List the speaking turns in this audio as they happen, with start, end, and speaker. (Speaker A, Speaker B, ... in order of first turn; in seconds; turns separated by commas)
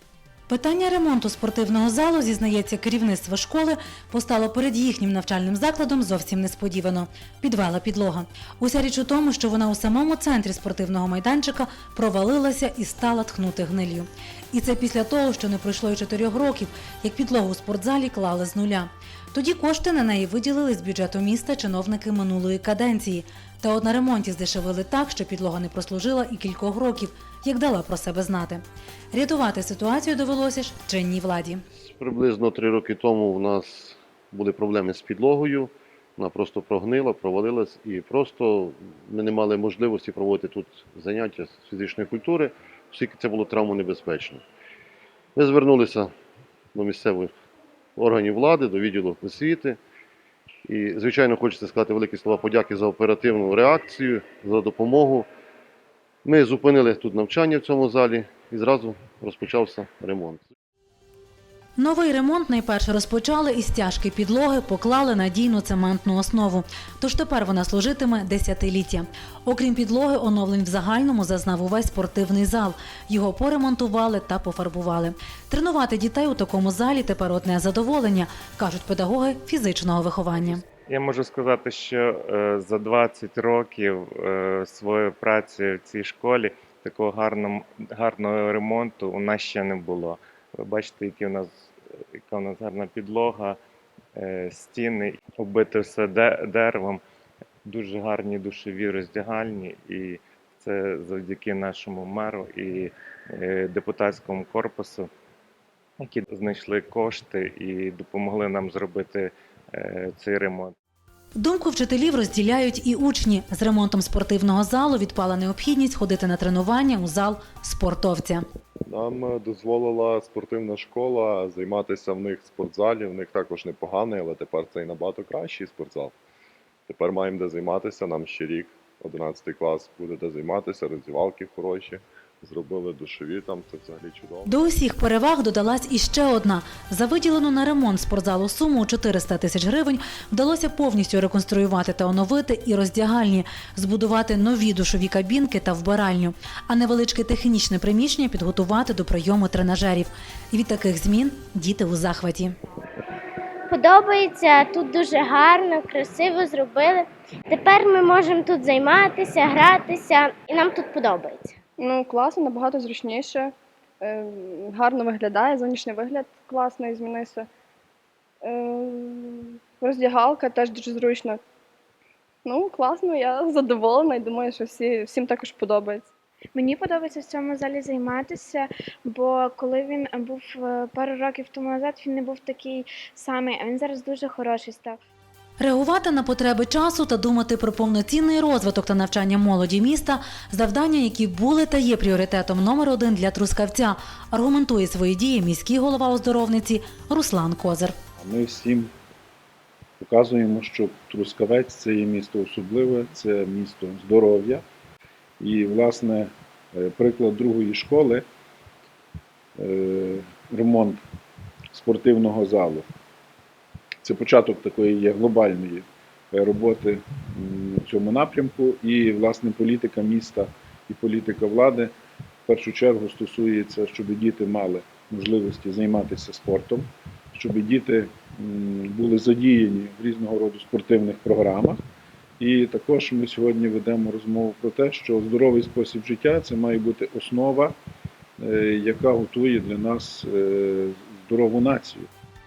Speaker A: 0.5-31.6, Speaker B: 31.8-44.4, Speaker B: 45.4-46.1, Speaker B: 46.8-47.3, Speaker B: 48.0-49.8, Speaker B: 50.7-55.3, Speaker B: 56.2-60.5, Speaker A: 61.8-80.6, Speaker C: 80.5-91.5, Speaker C: 92.3-93.6, Speaker C: 94.2-97.0, Speaker C: 97.7-105.1, Speaker C: 106.0-110.7, Speaker A: 111.4-118.4, Speaker D: 118.9-126.2, Speaker D: 126.9-134.5, Speaker A: 134.4-152.5, Speaker E: 153.7-161.6, Speaker F: 161.8-167.5, Speaker F: 168.4-171.4, Speaker F: 172.5-176.1, Speaker G: 176.6-185.0, Speaker A: 185.6-197.9, Speaker H: 198.2-198.9, Speaker H: 200.0-204.6, Speaker H: 205.4-208.2, Speaker H: 209.6-211.0, Speaker H: 211.7-212.8, Speaker H: 214.0-221.9, Speaker H: 222.5-231.8, Speaker H: 232.4-237.7, Speaker H: 238.4-242.1